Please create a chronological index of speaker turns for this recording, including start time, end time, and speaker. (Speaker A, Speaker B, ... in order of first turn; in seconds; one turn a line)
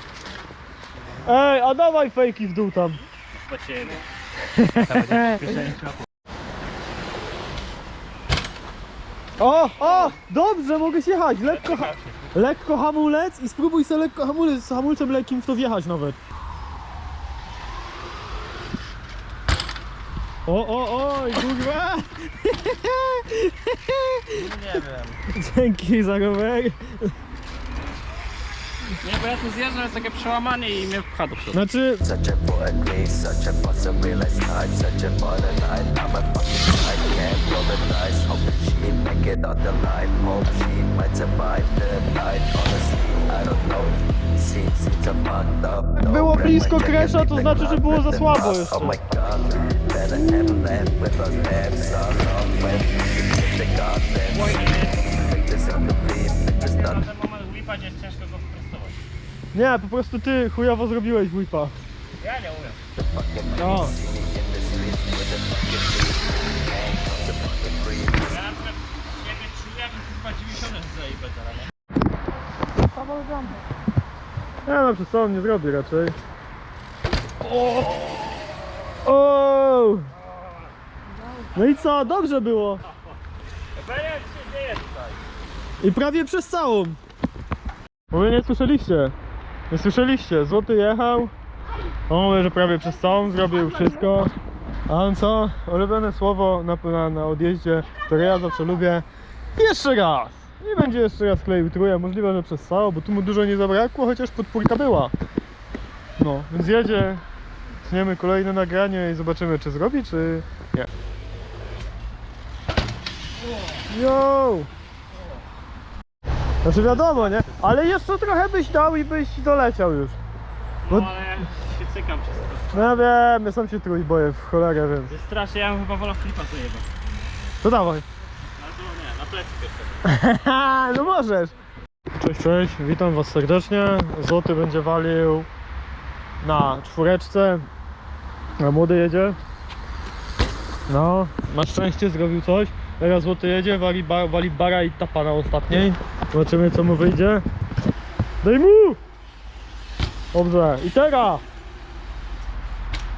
Speaker A: 1.2-3.0
Speaker B: 3.3-4.0
Speaker A: 4.5-5.6
Speaker B: 4.8-6.0
Speaker A: 9.4-16.2
Speaker B: 9.9-10.1
Speaker B: 11.4-12.3
Speaker A: 20.4-24.5
Speaker B: 24.3-25.2
Speaker A: 25.3-27.1
Speaker B: 29.0-31.6
Speaker A: 31.5-32.0
Speaker C: 32.1-43.7
Speaker C: 44.6-45.9
Speaker A: 45.9-48.9
Speaker C: 46.5-47.6
Speaker C: 48.2-49.2
Speaker C: 50.0-52.7
Speaker C: 53.6-54.2
Speaker B: 54.3-59.0
Speaker A: 59.5-61.7
Speaker B: 62.2-62.8
Speaker C: 63.3-66.0
Speaker A: 63.5-64.0
Speaker B: 67.0-71.7
Speaker C: 67.5-67.8
Speaker A: 74.7-76.1
Speaker A: 79.0-80.1
Speaker A: 81.5-82.8
Speaker B: 83.7-85.2
Speaker A: 85.8-87.0
Speaker A: 88.1-89.1
Speaker A: 89.7-91.3
Speaker A: 92.1-94.3
Speaker B: 93.5-94.0
Speaker A: 94.9-99.0
Speaker A: 99.5-105.1
Speaker A: 106.2-107.2
Speaker A: 107.8-110.9
Speaker A: 113.9-114.7
Speaker A: 116.6-120.2
Speaker B: 116.8-117.7
Speaker B: 120.8-123.0
Speaker A: 122.7-125.1
Speaker B: 125.1-126.8
Speaker A: 127.6-128.0
Speaker B: 128.6-130.0
Speaker A: 130.1-131.5
Speaker A: 132.2-135.5
Speaker A: 136.4-137.7
Speaker A: 138.6-139.4
Speaker A: 140.9-147.4
Speaker A: 148.4-149.0
Speaker A: 150.3-151.4